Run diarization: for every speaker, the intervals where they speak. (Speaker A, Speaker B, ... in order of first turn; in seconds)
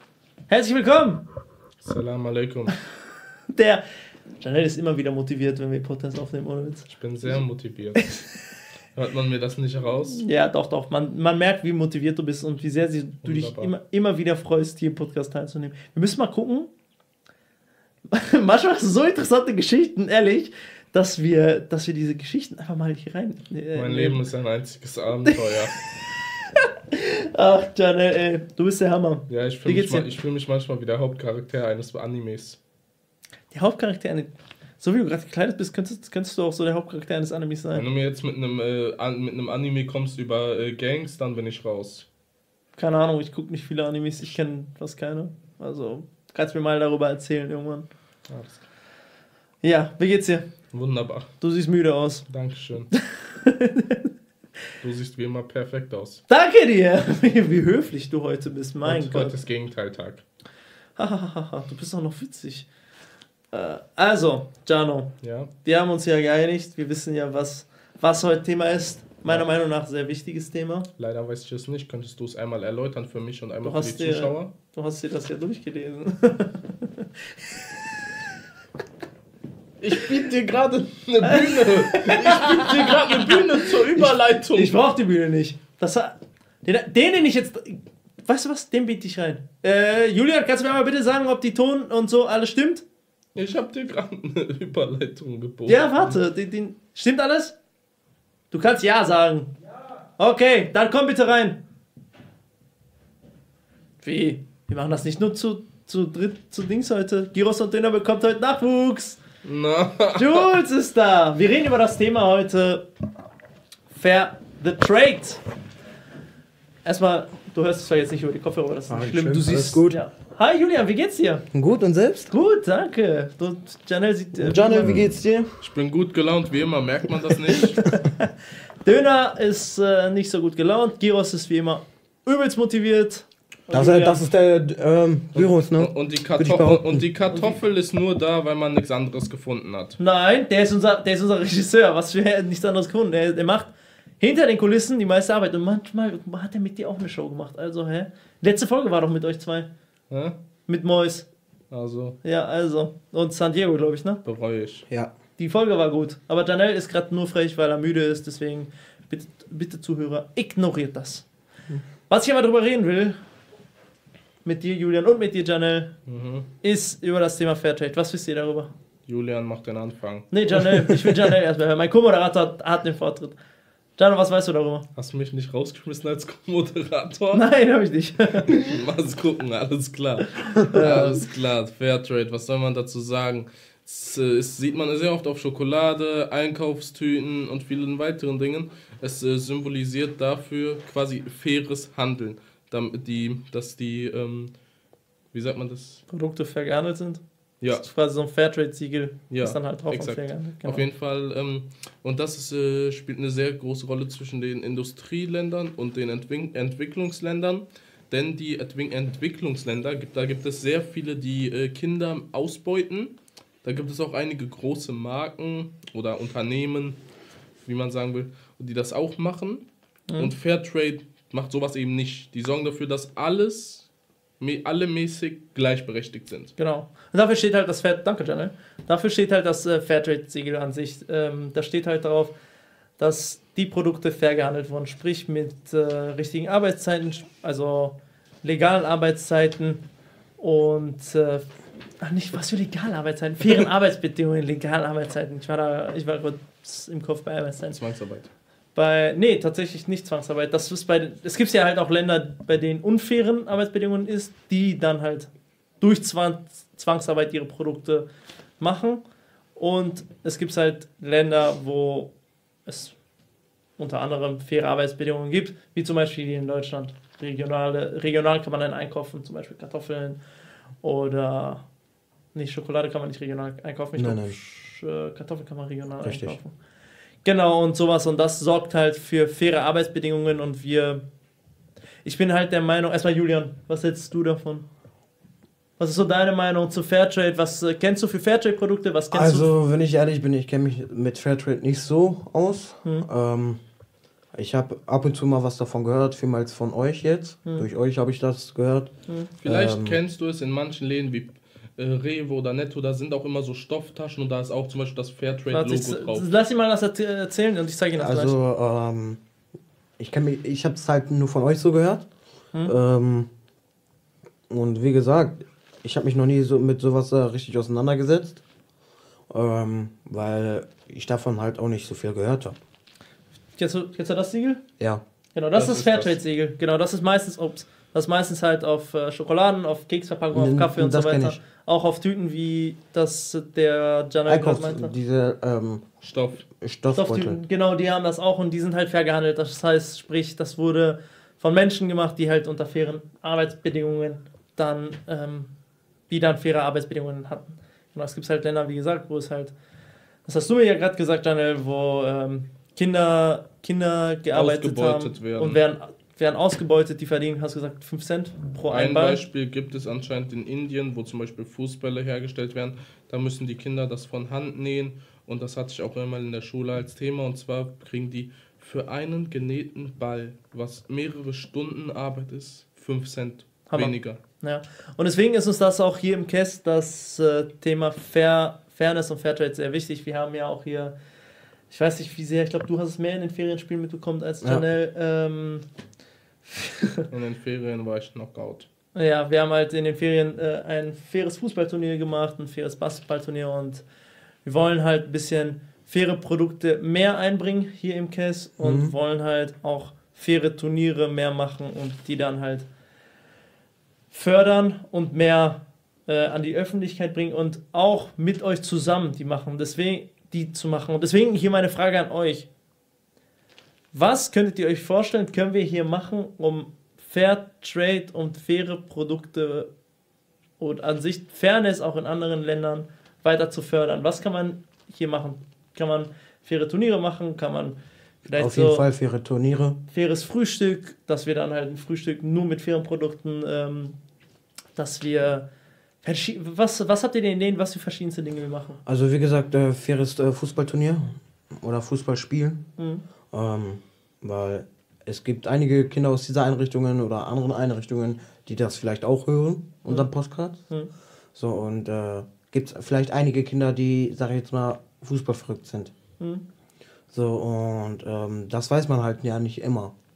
Speaker A: 0.5-1.2, 3.5-3.8, 4.4-6.9, 10.2-16.7, 18.1-24.2, 26.5-30.1, 33.5-37.9, 42.8-47.9, 49.6-50.5, 51.4-52.3, 52.9-54.1, 56.3-59.4, 61.0-62.7, 63.5-70.9, 73.6-77.9, 81.2-92.8, 95.7-97.6, 98.5-99.5, 100.2-101.6, 104.0-109.2, 110.1-112.8, 113.9-115.4, 116.8-121.5, 122.3-125.0, 127.5-134.2, 137.3-137.6, 140.0-149.7, 150.7-151.3, 152.2-154.2, 155.4-161.3, 162.1-163.2, 164.4-165.9, 166.6-168.7, 170.3-173.4, 174.0-174.9, 177.3-178.6, 180.7-181.1, 196.1-200.9, 226.6-232.3, 233.0-239.8, 240.4-241.5, 242.0-247.8, 248.8-258.1, 258.6-259.0, 259.6-262.1, 262.7-263.0, 263.8-270.2, 270.8-271.6, 272.3-276.5, 277.2-281.0, 282.0-284.7, 285.8-289.5, 305.5-308.4, 323.6-324.6, 325.3-334.9, 336.9-345.5, 346.1-349.5, 350.3-359.2, 373.7-380.9, 381.7-385.6, 386.4-387.1, 388.9-393.8, 394.4-402.7, 404.1-412.5, 413.9-419.7, 420.6-428.9, 429.9-434.0, 434.8-435.5, 436.0-438.8, 442.8-443.0, 456.2-456.4
Speaker B: 1.8-2.8, 6.9-8.2, 8.9-10.2, 13.2-13.7, 23.8-25.8, 29.3-32.6, 37.7-42.1, 48.3-48.6, 50.7-51.3, 52.3-52.9, 54.8-56.2, 58.8-60.2, 65.2-65.5, 71.0-74.5, 79.8-84.8, 93.4-96.2, 109.4-110.6, 125.6-127.8, 135.3-140.0, 150.1-150.4, 151.7-152.2, 154.2-154.8, 166.1-166.5, 169.1-170.9, 174.9-177.5, 178.5-194.5, 195.3-196.0, 199.3-217.0, 217.6-219.7, 220.2-223.9, 224.4-226.5, 247.7-248.3, 299.4-306.3, 325.6-326.2, 336.0-336.4, 354.3-355.6, 358.7-374.2, 387.1-388.7
Speaker C: 118.9-120.0, 121.5-122.3, 124.4-125.6, 133.7-137.1, 274.0-274.4, 276.0-276.4, 289.1-293.6, 294.3-298.9, 299.4-300.0, 308.0-309.2, 310.0-312.1, 312.6-313.3, 314.5-318.4, 319.3-322.6, 330.3-331.4, 334.3-335.9, 336.5-337.4, 398.6-398.9, 428.3-429.8, 438.9-442.6, 443.3-450.6, 451.4-455.9, 457.1-459.9